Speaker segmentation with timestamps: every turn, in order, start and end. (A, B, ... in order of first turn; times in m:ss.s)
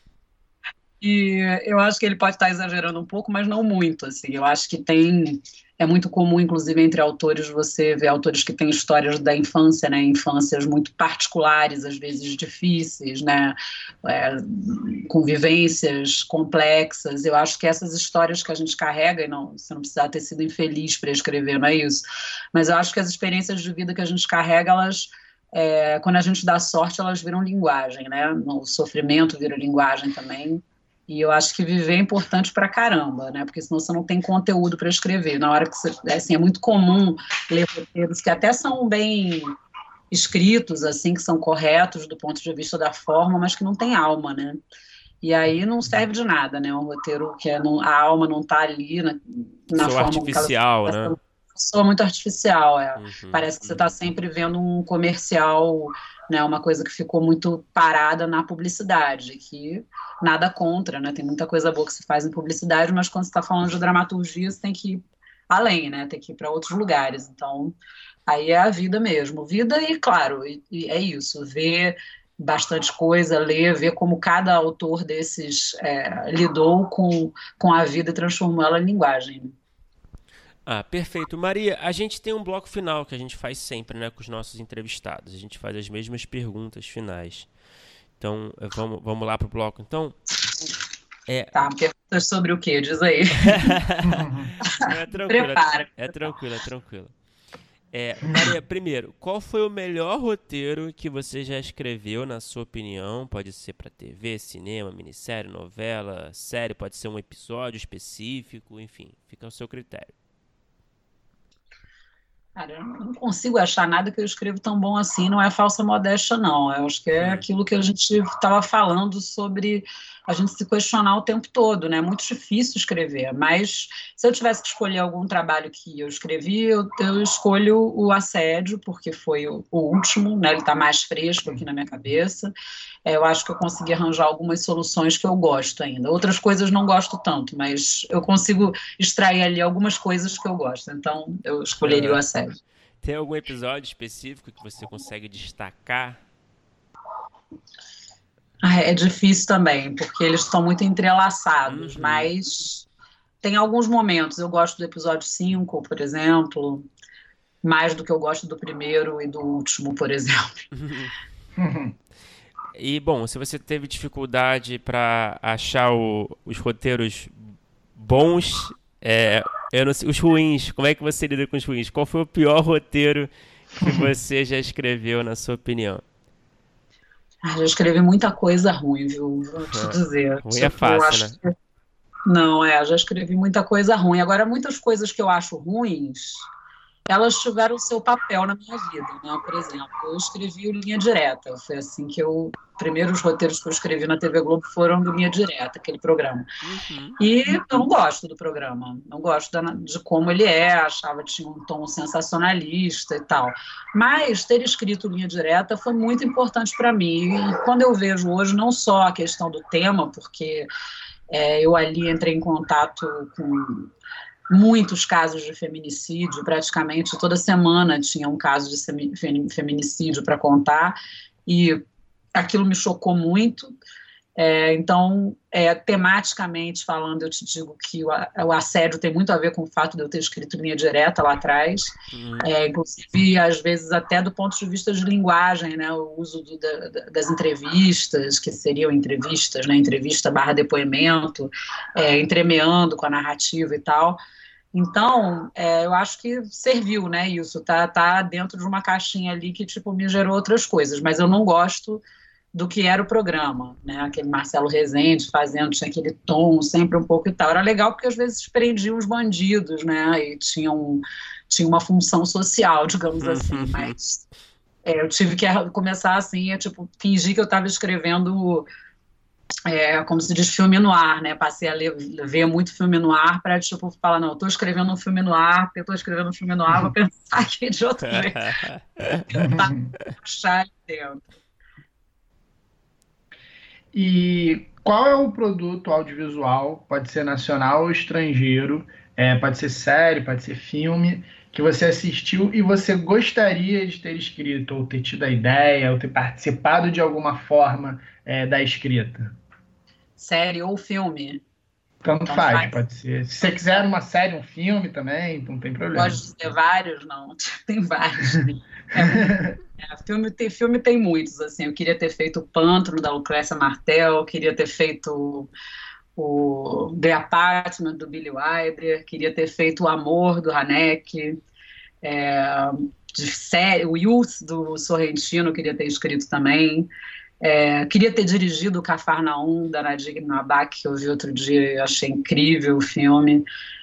0:01.0-0:39.6 A
0:40.1-0:44.6 A
0:45.2-1:07.8 A
0:49.7-0:51.2 B
0:53.0-0:53.8 B
1:08.3-1:19.5 A
1:20.6-1:27.5 B
1:28.2-1:30.2 B
1:31.3-1:31.5 B
1:31.5-1:33.8 A
1:33.4-1:37.1 B
1:34.0-1:34.5 C
1:35.1-1:36.2 A
1:37.9-1:50.1 B
1:52.6-2:12.5 A
1:57.2-1:57.4 B
2:13.0-2:22.6 A
2:21.8-2:22.2 B
2:23.0-2:26.2 B
2:28.6-2:32.8 A
2:31.7-2:32.3 B
2:33.4-2:36.8 A
2:37.6-2:40.6 A
2:40.7-2:41.1 B
2:41.6-2:41.9 C
2:42.7-2:56.0 B
2:57.4-3:01.5 A
2:59.7-3:01.4 B
3:02.2-3:06.4 A
3:07.1-3:16.5 A
3:16.6-3:17.2 B
3:17.2-3:30.7 A
3:31.3-3:33.9 A
3:34.5-3:41.8 A
3:42.3-3:43.7 A
3:44.4-4:04.2 A
3:52.1-3:52.5 B
4:04.7-4:12.0 A
4:12.5-4:24.2 A
4:23.2-4:23.9 B
4:24.8-4:28.7 A
4:29.6-4:38.5 A
4:38.1-4:39.2 B
4:39.3-4:41.2 A
4:39.4-4:39.9 C
4:43.9-4:59.3 C
5:00.2-5:01.4 A
5:02.0-5:06.2 C
5:02.3-5:02.8 A
5:05.9-5:15.5 A
5:09.0-5:09.6 C
5:16.1-5:21.4 A
5:22.0-5:26.9 A
5:27.4-5:33.4 A